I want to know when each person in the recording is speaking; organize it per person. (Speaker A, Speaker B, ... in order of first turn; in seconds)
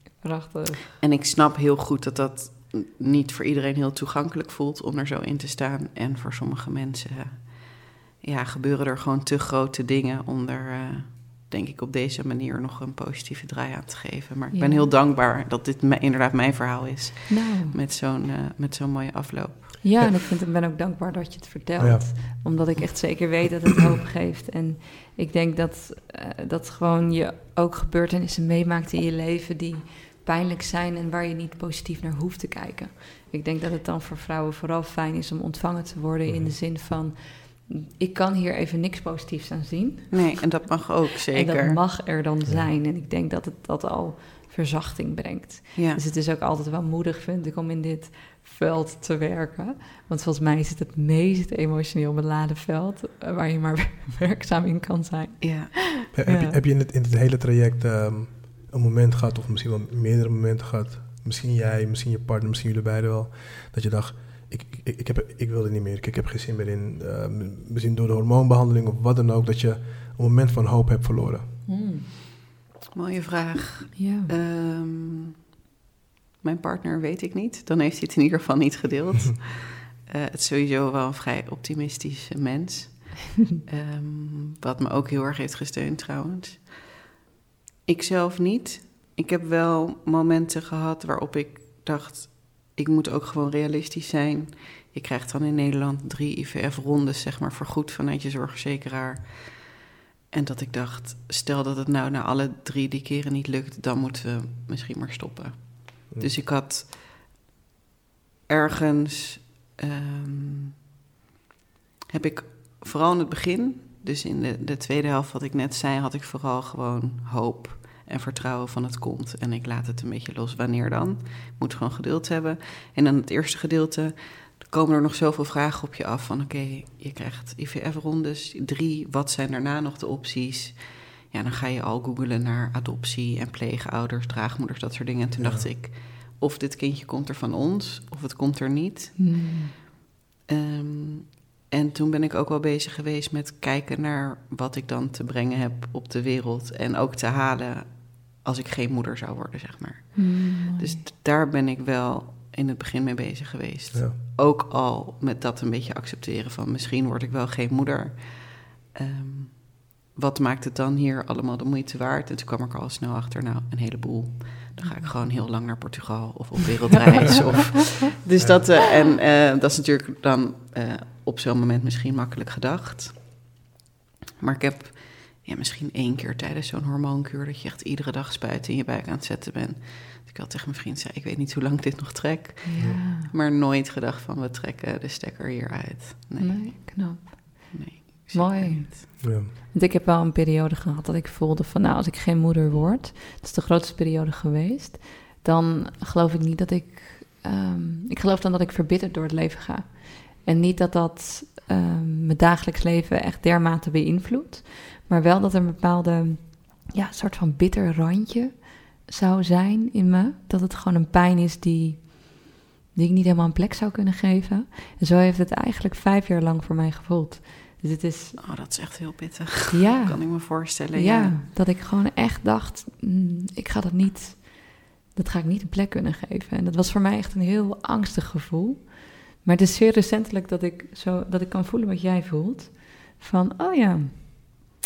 Speaker A: 0.2-0.9, 14.5-14.9, 17.3-17.8, 19.8-40.7, 41.3-56.5, 71.7-72.0, 74.0-74.3, 139.2-139.7, 150.1-151.0, 164.8-165.2, 182.6-183.3, 186.4-218.4, 219.7-234.6
Speaker B: 1.0-19.9, 40.1-41.8, 45.7-46.0, 55.4-55.8, 72.9-75.3, 76.4-86.8, 87.8-107.1, 108.5-110.8, 112.1-139.3, 140.5-173.3, 174.4-189.0, 218.4-221.4
Speaker C: 21.8-22.8, 36.2-36.5, 42.4-42.7, 56.1-71.6, 135.4-135.7, 168.4-168.7, 189.2-189.5